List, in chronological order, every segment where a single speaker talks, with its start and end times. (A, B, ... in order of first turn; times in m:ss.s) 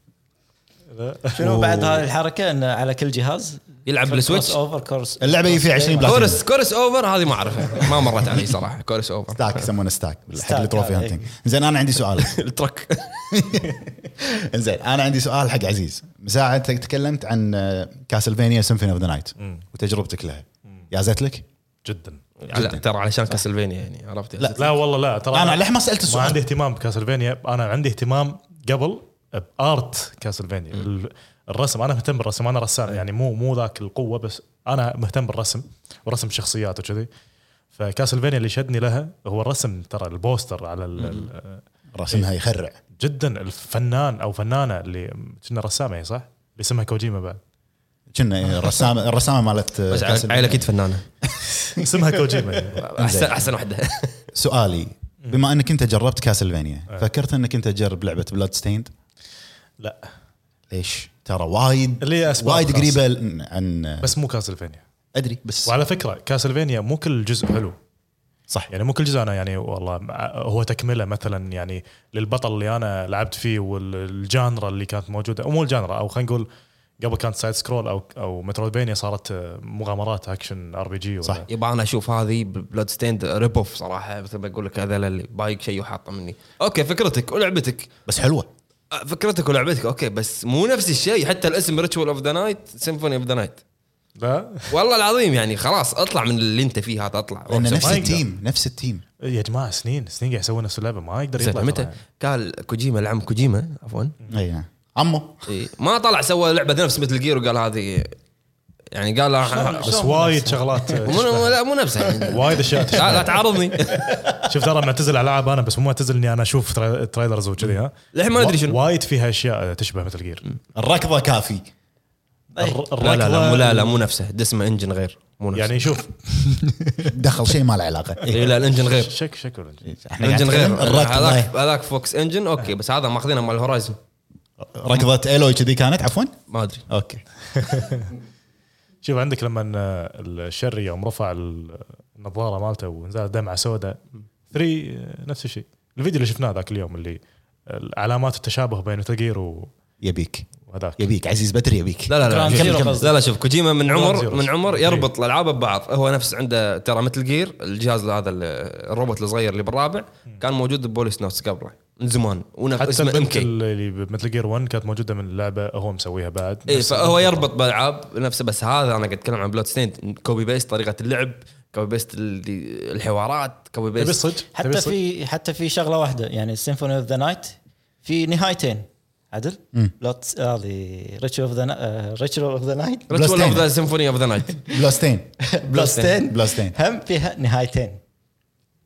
0:00.9-0:01.4 A
0:01.4-0:06.3 B
0:01.4-0:02.0 C
0:03.8-0:04.6 D
0:05.2-0:06.4 C
0:06.0-0:09.6 D
0:09.3-0:12.4 C
0:10.3-0:11.2 B
0:12.2-0:13.4 D
0:13.3-0:21.4 C
0:19.4-0:19.6 A
0:21.8-0:22.2 A
0:22.4-0:24.6 D
0:22.5-0:22.8 C
0:24.4-0:24.7 C
0:24.6-0:37.1 A
0:25.3-0:26.4 C
0:37.7-0:42.2 A
0:41.9-0:42.8 C
0:43.0-0:47.4 A
0:48.1-0:50.7 C
0:49.9-0:51.0 D
0:51.2-0:52.0 C
0:51.6-0:52.8 A
0:52.8-0:54.2 D
0:53.0-0:53.4 C
0:54.3-0:58.9 C
0:59.8-1:00.1 A
1:00.7-1:04.1 C
1:02.0-1:03.0 A
1:04.0-1:04.8 A
1:05.1-1:05.7 C
1:05.6-1:07.7 A
1:08.7-1:16.5 A
1:17.0-1:21.5 A
1:21.5-1:27.9 D
1:28.0-1:28.5 C
1:28.9-1:33.6 D
1:34.2-1:34.7 A
1:34.7-1:38.2 D
1:37.5-1:39.0 C
1:37.8-1:38.2 A
1:39.2-1:42.0 A
1:41.4-1:44.1 D
1:44.3-1:45.4 C
1:45.5-1:48.1 D
1:48.9-1:50.0 D
1:49.4-1:51.0 B
1:49.8-1:51.6 A
1:51.0-1:54.1 D
1:52.1-1:53.4 A
1:54.0-1:54.3 B
1:54.4-2:00.4 A
1:58.1-1:58.8 D
2:00.7-2:01.6 C
2:02.6-2:04.0 A
2:03.0-2:05.9 D
2:05.5-2:07.1 A
2:07.0-2:08.5 C
2:08.3-2:09.1 D
2:08.3-2:09.9 A
2:09.8-2:11.5 C
2:10.2-2:14.0 D
2:14.6-2:16.3 C
2:16.5-2:16.8 D
2:16.9-2:17.2 C
2:17.5-2:18.1 A
2:19.0-2:24.0 A
2:24.5-2:29.7 A
2:30.0-2:30.5 C
2:30.7-2:31.0 A
2:31.0-2:32.7 C
2:32.1-2:43.5 D
2:32.2-2:32.9 A
2:32.3-2:33.1 B
2:33.8-2:35.1 A
2:42.8-2:47.5 A
2:46.7-2:54.2 D
2:54.0-2:55.0 A
2:54.5-3:03.1 B
3:03.1-3:04.6 D
3:03.1-3:03.7 C
3:04.7-3:05.3 C
3:05.6-3:08.0 B
3:05.7-3:06.2 D
3:06.2-3:06.7 C